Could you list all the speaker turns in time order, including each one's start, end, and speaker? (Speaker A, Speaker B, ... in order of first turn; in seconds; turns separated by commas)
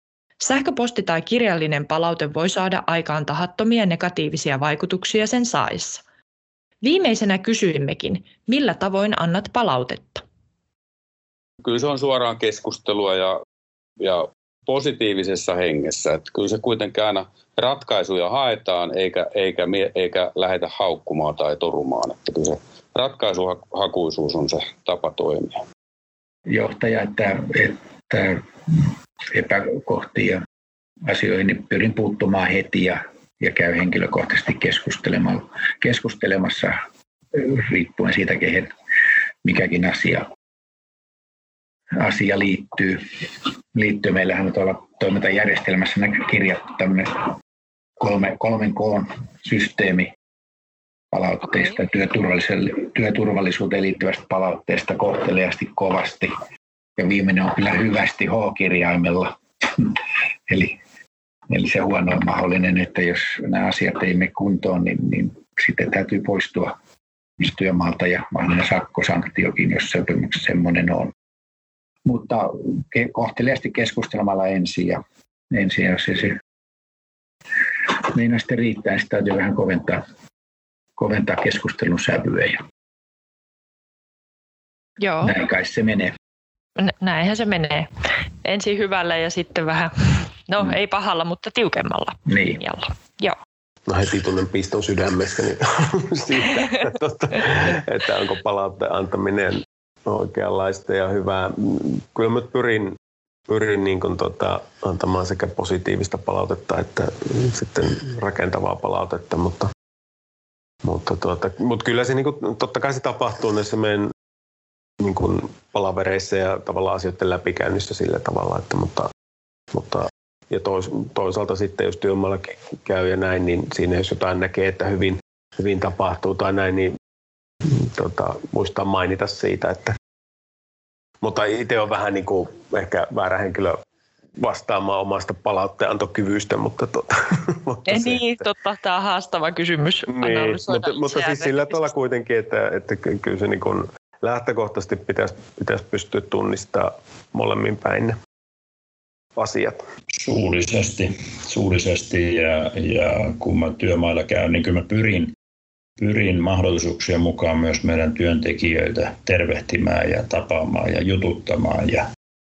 Speaker A: 0.4-6.0, Speaker A: 6.8-10.2, Speaker B: 11.6-13.3, Speaker B: 14.0-25.6, Speaker C: 26.5-30.4, Speaker C: 31.1-36.8, Speaker C: 37.3-38.7, Speaker C: 39.4-40.2, Speaker C: 42.0-43.0, Speaker C: 43.7-47.3, Speaker C: 48.0-50.1, Speaker C: 51.1-56.3, Speaker C: 57.0-60.0, Speaker C: 60.5-60.8, Speaker C: 61.5-66.7, Speaker C: 67.4-71.1, Speaker C: 72.0-75.0, Speaker C: 75.5-76.3, Speaker C: 78.1-80.0, Speaker C: 81.0-82.6, Speaker A: 85.0-85.3, Speaker C: 85.2-86.1, Speaker A: 86.8-87.9, Speaker A: 88.4-93.4, Speaker C: 92.3-92.6, Speaker D: 93.9-103.0, Speaker D: 103.5-109.7, Speaker D: 110.8-114.1, Speaker D: 115.0-119.1, Speaker D: 119.7-127.0, Speaker D: 127.7-129.9, Speaker D: 131.2-133.8, Speaker D: 134.4-138.5, Speaker A: 137.9-141.9, Speaker D: 140.1-148.2, Speaker D: 149.4-149.8, Speaker E: 150.1-155.3, Speaker E: 156.0-162.1